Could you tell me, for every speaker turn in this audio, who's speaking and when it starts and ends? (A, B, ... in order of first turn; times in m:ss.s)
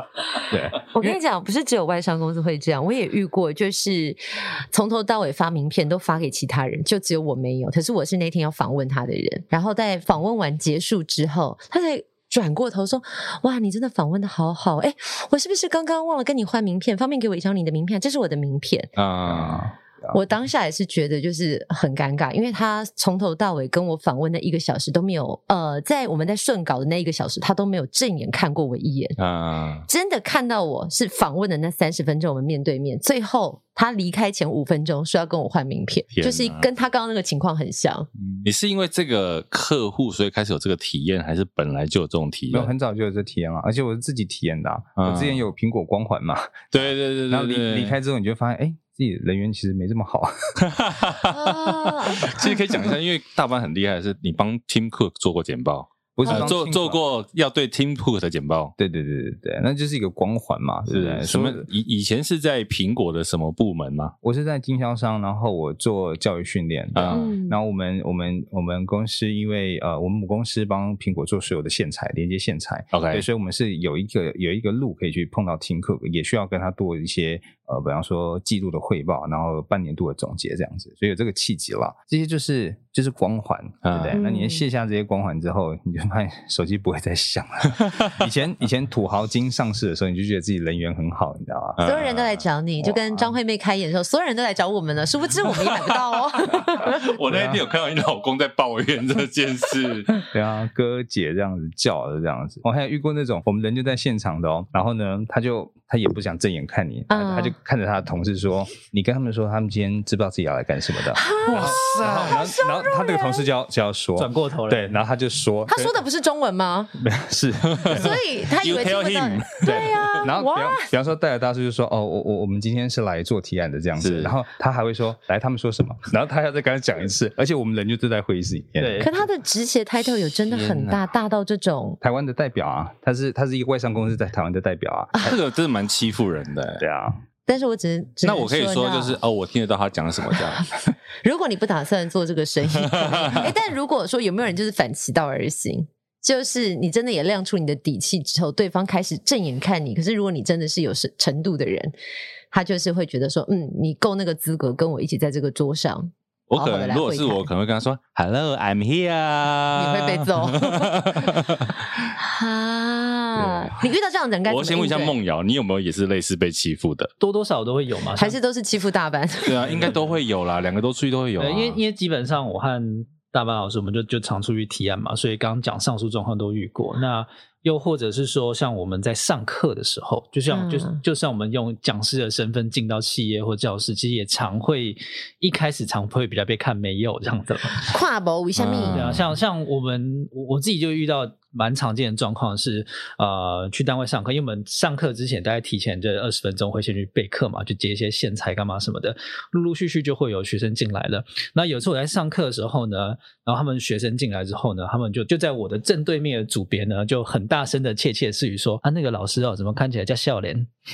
0:00.5-0:01.2 A
0:00.8-0:18.9 B
0:19.0-0:19.7 C
0:19.3-0:20.2 A
0:20.1-0:29.2 B
0:29.2-0:29.9 C
0:29.9-0:38.1 B
0:36.1-0:36.7 C
0:38.2-0:42.7 C
0:42.5-0:50.5 A
0:45.0-0:45.4 C
0:46.7-0:48.0 C
0:50.6-0:58.7 C
0:51.3-0:52.5 B
0:56.2-0:57.0 A
0:56.2-0:56.5 B
0:58.8-1:01.7 A
1:00.9-1:04.1 C
1:04.2-1:31.8 A
1:06.9-1:07.3 C
1:07.1-1:07.6 B
1:12.9-1:13.2 C
1:23.8-1:24.2 C
1:24.1-1:24.6 B
1:31.8-1:32.4 C
1:31.8-1:37.1 B
1:32.8-1:33.4 A
1:35.5-1:35.9 C
1:36.5-1:40.2 C
1:37.3-1:37.6 A
1:40.3-1:56.0 A
1:47.1-1:47.5 B
1:51.0-1:53.5 B
1:51.4-1:52.4 C
1:54.2-1:55.0 D
1:55.7-1:56.9 B
1:57.0-1:58.1 A
1:57.8-2:00.2 C
1:57.9-2:00.9 B
1:59.6-2:09.1 A
2:04.0-2:04.3 C
2:08.8-2:09.1 C
2:09.0-2:12.0 B
2:10.5-2:11.1 C
2:12.0-2:15.1 A
2:15.1-2:16.8 C
2:16.8-2:17.2 A
2:17.4-2:19.2 B
2:18.2-2:20.7 C
2:21.2-2:31.9 B
2:22.8-2:23.5 C
2:32.5-2:37.5 B
2:36.5-2:41.8 C
2:39.7-2:41.4 B
2:42.1-2:45.2 B
2:43.3-2:43.7 C
2:44.5-2:47.1 C
2:47.2-2:48.4 D
2:48.1-2:49.8 B
2:49.4-2:51.8 C
2:51.4-3:07.9 D
3:00.5-3:01.0 B
3:07.8-3:09.1 B
3:08.6-3:09.3 C
3:08.9-3:30.7 D